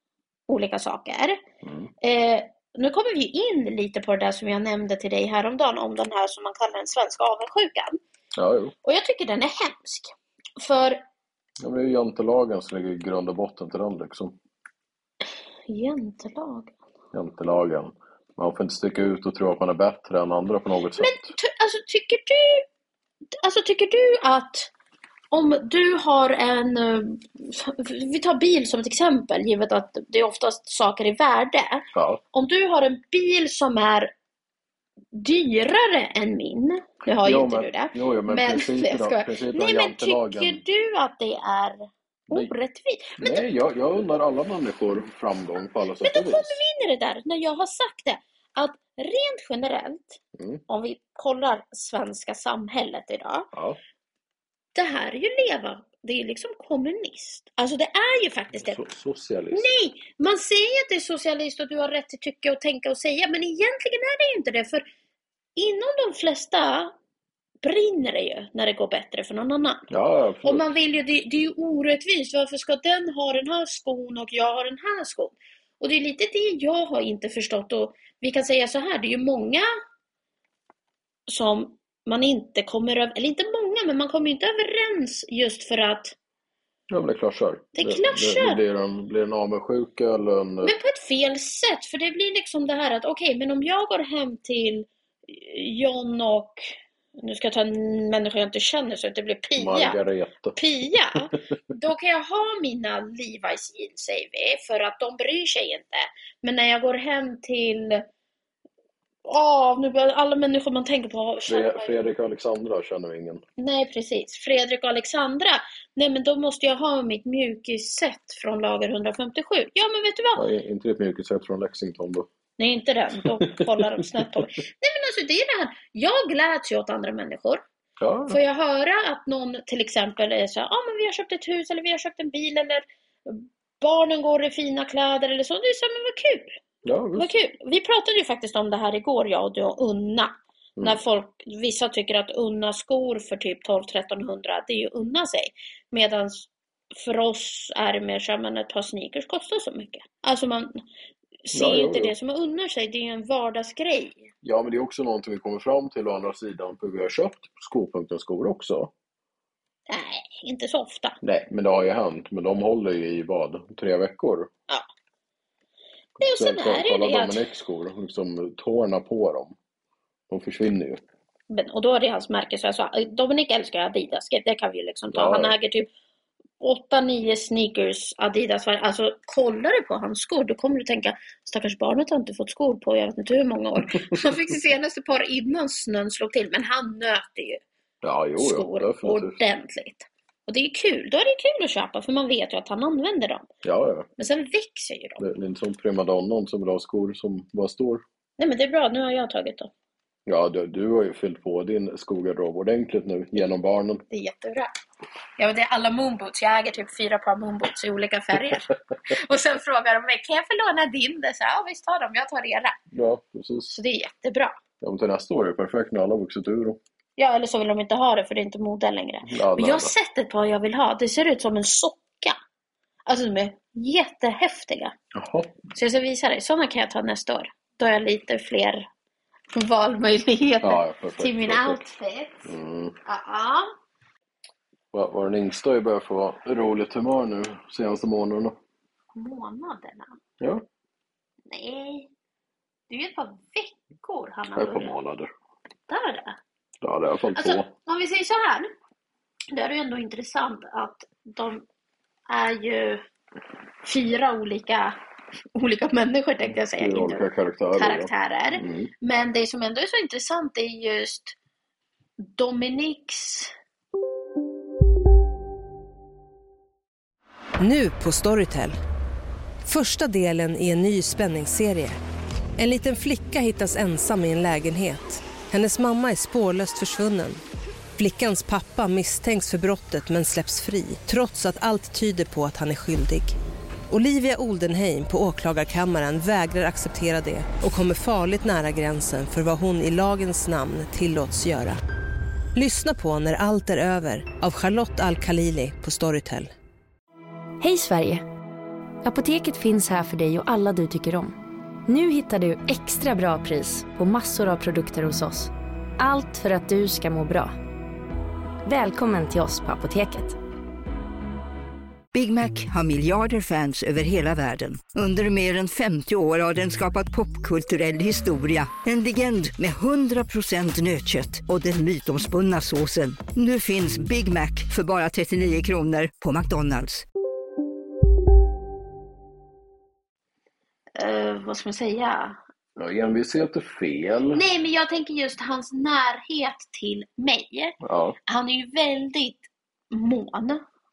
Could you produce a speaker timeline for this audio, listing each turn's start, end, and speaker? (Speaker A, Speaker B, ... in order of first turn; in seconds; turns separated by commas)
Speaker A: 0.5-1.4, Speaker B: 1.6-1.9, Speaker A: 2.0-8.0, Speaker B: 8.3-8.7, Speaker A: 8.8-11.0, Speaker B: 11.6-14.3, Speaker A: 15.7-16.7, Speaker B: 17.1-21.3, Speaker A: 21.0-22.6, Speaker A: 23.4-24.7, Speaker A: 25.3-34.1, Speaker B: 31.9-32.2, Speaker A: 35.1-43.5, Speaker B: 37.2-40.6, Speaker B: 43.2-46.6, Speaker A: 46.0-53.5, Speaker B: 50.4-50.6, Speaker B: 53.5-53.8, Speaker A: 54.7-58.8, Speaker B: 58.6-59.7, Speaker A: 59.5-64.8, Speaker A: 65.5-66.9, Speaker A: 67.6-69.9, Speaker B: 69.9-70.7, Speaker A: 70.4-79.7, Speaker A: 81.3-86.1, Speaker B: 86.9-90.7, Speaker A: 87.7-88.6, Speaker A: 90.6-100.0, Speaker B: 99.6-101.4, Speaker A: 100.5-108.0, Speaker A: 109.2-112.0, Speaker B: 111.5-113.4, Speaker A: 113.6-120.4, Speaker B: 120.3-122.3, Speaker A: 122.6-127.6, Speaker B: 123.2-124.5, Speaker B: 128.0-128.4, Speaker A: 128.3-136.6, Speaker B: 136.8-137.3, Speaker A: 137.1-150.8, Speaker A: 151.5-154.3, Speaker B: 151.5-152.1, Speaker B: 154.4-158.9, Speaker A: 159.9-161.2, Speaker B: 161.2-164.5, Speaker B: 166.2-169.6, Speaker A: 166.2-167.4, Speaker B: 170.3-171.0, Speaker A: 171.5-175.9, Speaker B: 175.1-175.5, Speaker A: 176.6-187.6, Speaker B: 188.0-189.4, Speaker A: 188.3-193.5, Speaker B: 193.6-194.1, Speaker A: 194.2-195.2, Speaker B: 195.2-198.0, Speaker A: 198.4-199.7, Speaker B: 200.2-204.0, Speaker A: 204.1-204.7, Speaker A: 205.4-212.8, Speaker B: 212.9-213.8, Speaker A: 213.7-214.6, Speaker B: 214.8-216.8, Speaker A: 217.2-222.4, Speaker B: 219.2-219.9, Speaker A: 223.1-224.9, Speaker B: 225.1-225.5, Speaker A: 225.7-228.8, Speaker A: 229.5-232.5, Speaker B: 230.6-231.8, Speaker B: 232.4-232.9, Speaker A: 233.1-233.7, Speaker B: 234.9-238.6, Speaker A: 239.1-240.2, Speaker B: 240.4-240.6, Speaker A: 241.5-242.1, Speaker A: 242.9-244.9, Speaker B: 244.5-245.3, Speaker A: 245.9-246.4, Speaker B: 246.8-247.7, Speaker A: 247.3-248.7, Speaker A: 249.5-251.6, Speaker A: 252.3-253.0, Speaker A: 253.8-255.0, Speaker A: 255.5-261.3, Speaker B: 256.7-258.9, Speaker A: 262.2-263.5, Speaker C: 267.6-268.8, Speaker C: 269.6-272.0, Speaker C: 272.6-277.4, Speaker C: 278.0-283.3, Speaker C: 283.9-291.8, Speaker C: 292.5-296.5, Speaker D: 297.6-298.2, Speaker D: 299.0-307.6, Speaker D: 308.6-310.4, Speaker E: 312.1-327.0, Speaker A: 330.9-332.4, Speaker B: 332.8-334.4, Speaker A: 334.3-340.6, Speaker B: 337.8-338.2